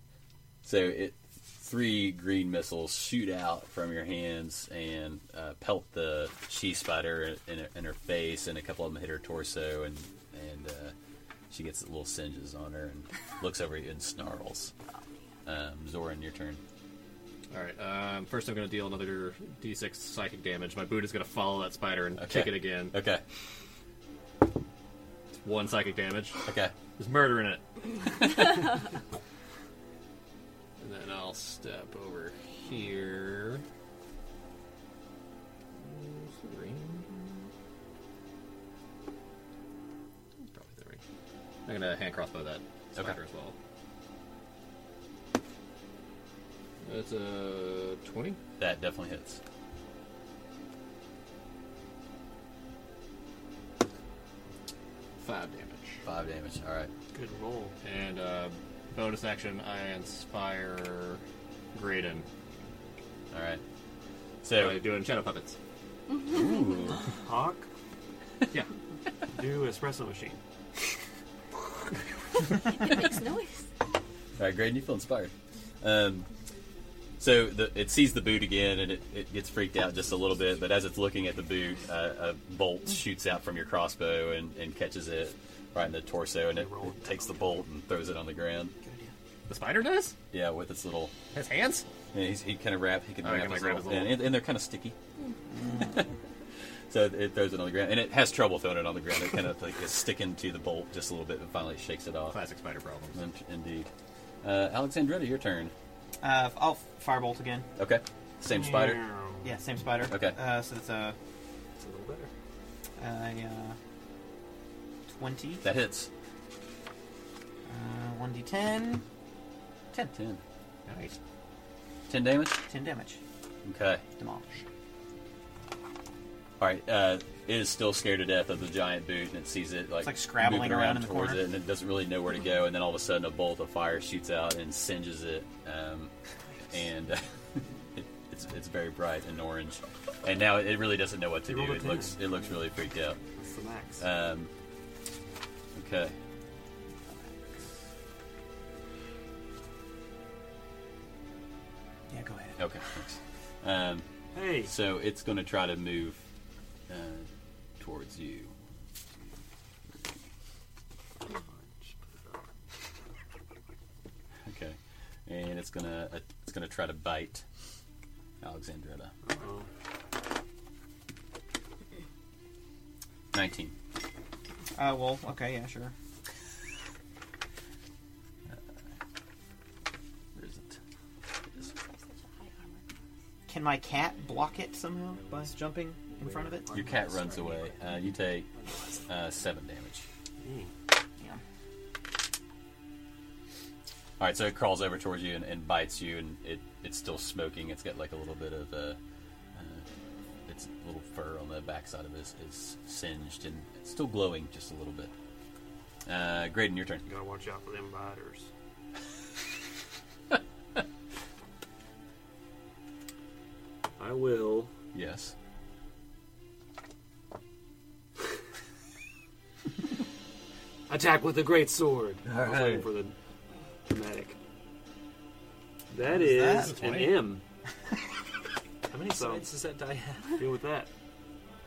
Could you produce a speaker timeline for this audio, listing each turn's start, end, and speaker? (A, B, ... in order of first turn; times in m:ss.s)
0:00.6-0:10.9 A
0:11.5-0:14.7 A
0:15.4-0:16.6 A
0:17.5-0:23.0 B
0:22.2-0:23.2 A
0:25.4-0:26.4 B
0:26.4-0:26.7 A
0:27.0-0:28.7 B
0:30.8-0:33.6 B
0:35.8-0:37.3 B
0:40.5-0:41.0 B
0:41.6-0:43.5 B
0:46.8-0:48.4 B
0:48.6-0:49.4 A
0:55.2-0:56.0 B
0:56.0-0:56.9 A
0:57.1-0:57.7 C
0:57.8-1:01.2 B
1:01.7-1:02.3 B
1:03.3-1:03.6 A
1:04.4-1:04.8 A
1:04.5-1:05.6 B
1:06.1-1:06.6 D
1:06.2-1:07.0 A
1:07.2-1:07.7 C
1:09.3-1:10.4 C
1:12.6-1:13.6 D
1:14.4-1:16.3 A
1:17.2-1:28.7 A
1:26.5-1:27.6 C
1:28.8-1:29.1 E
1:29.5-1:30.2 B
1:30.3-1:31.2 A
1:31.3-1:31.8 B
1:32.1-1:35.0 A
1:33.2-1:34.3 B
1:35.5-1:36.0 E
1:35.7-1:36.0 A
1:36.9-1:42.4 A
1:42.3-1:43.2 B
1:43.1-1:43.9 A
1:44.4-1:45.7 A
1:46.2-1:47.7 E
1:47.8-1:49.1 A
1:48.5-1:49.5 C
1:49.4-1:51.2 E
1:50.1-1:50.4 A
1:51.8-1:52.3 C
1:51.8-1:52.1 F
1:53.0-1:53.8 E
1:55.1-1:55.6 E
1:55.6-1:56.1 A
1:57.7-1:59.0 E
2:00.1-2:00.4 A
2:00.8-2:01.2 B
2:02.1-2:02.6 A
2:02.6-2:03.2 E
2:03.6-2:04.0 A
2:04.2-2:04.6 E
2:06.6-2:16.1 A
2:10.0-2:11.4 E
2:16.7-2:23.2 A
2:21.5-2:22.2 C
2:23.4-2:24.0 C
2:24.0-2:24.5 A
2:25.7-2:26.2 A
2:27.1-2:27.7 E
2:32.1-2:32.7 E
2:32.6-2:34.0 A
2:34.3-2:34.7 C
2:34.6-2:36.2 A
2:36.9-2:37.3 A
2:37.8-2:38.5 A
2:41.3-2:42.4 C
2:44.4-2:47.4 A
2:48.4-2:49.1 A
2:49.2-2:49.7 C
2:53.3-2:53.7 A
2:54.8-2:55.9 E
3:00.4-3:00.7 A
3:01.5-3:02.8 D
3:03.5-3:06.7 E
3:05.2-3:05.6 F
3:06.2-3:07.7 F
3:06.7-3:08.5 A
3:08.6-3:09.0 F
3:09.1-3:10.0 A
3:10.4-3:10.7 C
3:14.2-3:19.0 A
3:19.5-3:19.9 A
3:20.5-3:25.1 A
3:26.0-3:27.0 A
3:27.0-3:28.5 C
3:34.0-3:34.7 C
3:34.9-3:35.3 A
3:40.9-3:43.2 C
3:42.2-3:42.9 A
3:43.8-3:44.4 C
3:45.9-3:47.4 C
3:46.0-3:46.8 E
3:46.5-3:47.3 B
3:48.8-3:50.4 F
3:49.0-3:49.5 C
3:50.4-3:50.9 C